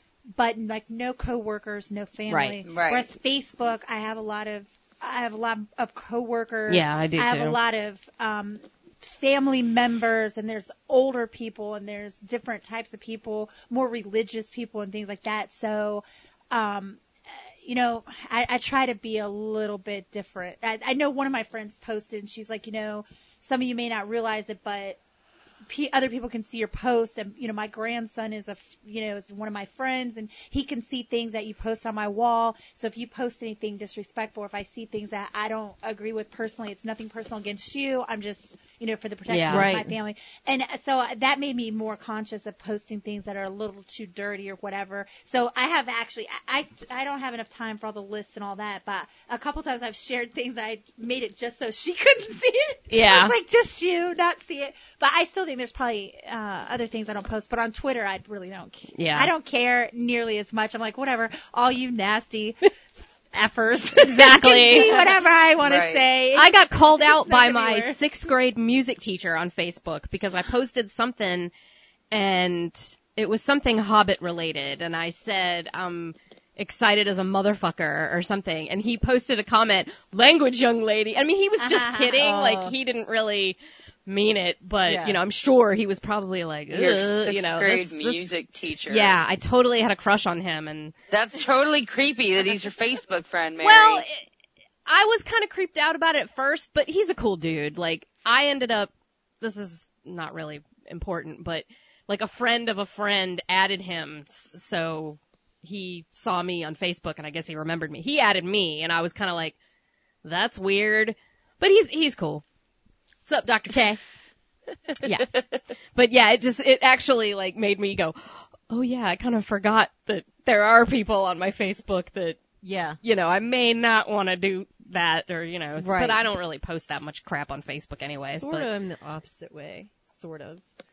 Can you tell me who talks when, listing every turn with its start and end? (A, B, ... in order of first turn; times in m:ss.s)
0:00.3-0:25.0 A
0:02.3-0:02.6 B
0:02.6-0:03.1 C
0:06.7-0:07.6 B
0:25.7-1:02.7 A
0:39.3-0:39.7 B
0:39.5-0:39.9 D
0:52.9-0:53.4 B
0:58.9-0:59.3 B
1:03.3-1:08.0 A
1:04.0-1:05.2 B
1:05.6-1:06.1 C
1:06.3-1:11.5 B
1:12.1-1:28.3 B
1:21.6-1:22.2 A
1:22.2-1:22.7 D
1:24.8-1:25.2 D
1:26.7-1:29.2 C
1:28.9-1:30.9 B
1:31.1-1:34.0 C
1:33.6-1:34.3 B
1:34.9-1:49.6 B
1:50.2-1:52.4 B
1:53.2-1:54.0 B
1:53.7-1:54.0 D
1:55.0-2:02.4 B
2:02.6-2:03.0 D
2:03.0-2:08.7 B
2:05.8-2:06.2 D
2:08.3-2:10.6 E